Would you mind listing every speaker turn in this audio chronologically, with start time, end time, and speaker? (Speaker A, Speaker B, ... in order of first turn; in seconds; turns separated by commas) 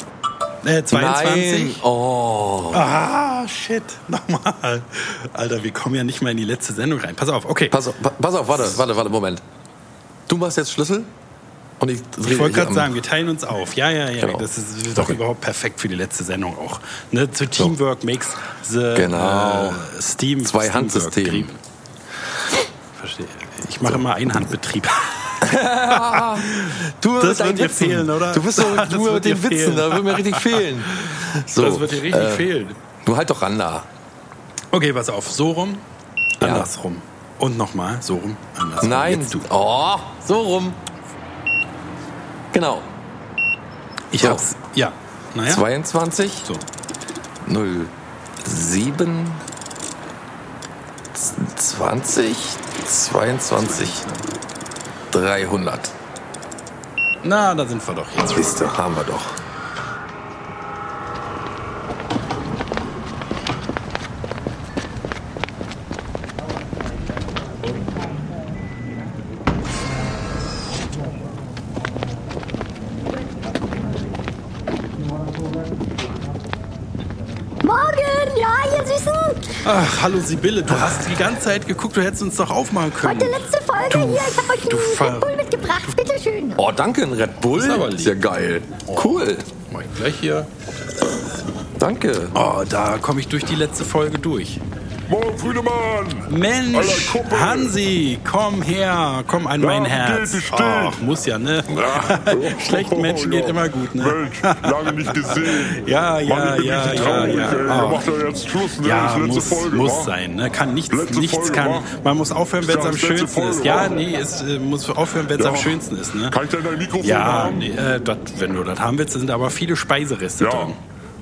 Speaker A: 0.6-1.8, Speaker B: 0.9-2.9, Speaker A: 2.7-7.8, Speaker B: 7.7-9.4, Speaker B: 10.3-11.1, Speaker B: 11.8-12.9, Speaker A: 12.2-21.6, Speaker B: 14.2-15.2, Speaker B: 18.9-19.9, Speaker B: 20.4-21.5, Speaker A: 23.0-32.8, Speaker B: 25.4-32.5, Speaker B: 33.0-33.9, Speaker A: 34.7-35.8, Speaker A: 36.4-39.5, Speaker B: 36.4-36.7, Speaker B: 38.8-40.8, Speaker B: 42.5-42.9, Speaker A: 44.1-45.6, Speaker B: 44.2-44.4, Speaker B: 45.5-46.5, Speaker B: 47.4-49.4, Speaker B: 51.1-54.1, Speaker A: 53.8-54.2, Speaker B: 55.1-55.9, Speaker A: 57.2-58.5, Speaker B: 58.2-59.4, Speaker C: 77.6-79.5, Speaker A: 79.6-85.4, Speaker C: 83.0-86.6, Speaker B: 86.5-89.5, Speaker A: 87.5-88.1, Speaker A: 88.8-90.5, Speaker B: 91.8-92.3, Speaker A: 92.3-94.6, Speaker D: 95.1-97.8, Speaker A: 96.3-108.1, Speaker D: 99.6-101.0, Speaker D: 101.7-110.1, Speaker A: 108.8-116.4, Speaker D: 110.9-111.9, Speaker D: 112.6-114.0, Speaker D: 115.4-117.8, Speaker A: 117.0-120.8, Speaker D: 120.4-120.8